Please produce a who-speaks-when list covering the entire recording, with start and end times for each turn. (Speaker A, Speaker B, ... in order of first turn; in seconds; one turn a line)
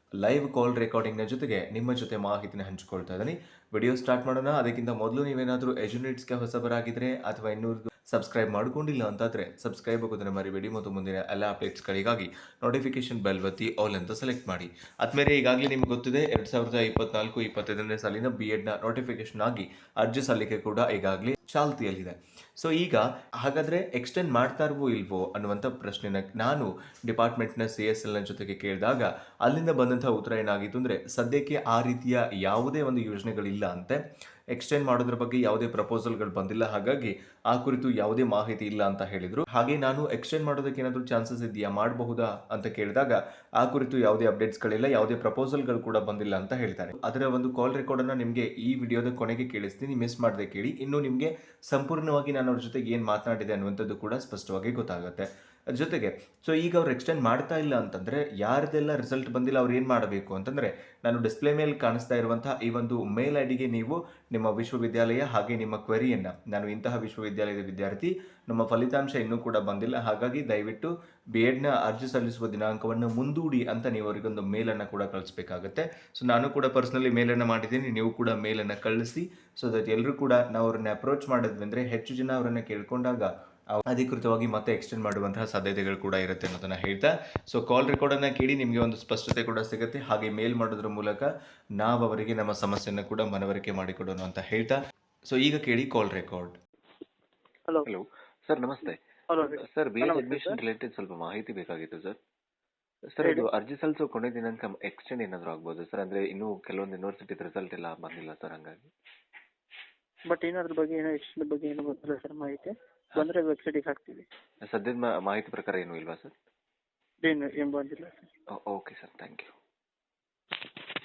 Speaker A: 0.2-34.0
Speaker A: 34.5-91.3
Speaker A: 91.8-94.8
Speaker A: 95.3-96.5
Speaker B: 97.8-99.0
Speaker C: 99.3-100.6
Speaker B: 99.6-102.2
Speaker B: 103.1-108.9
Speaker C: 103.2-103.5
Speaker C: 110.3-114.2
Speaker B: 114.6-116.3
Speaker C: 117.2-118.3
Speaker B: 118.6-119.5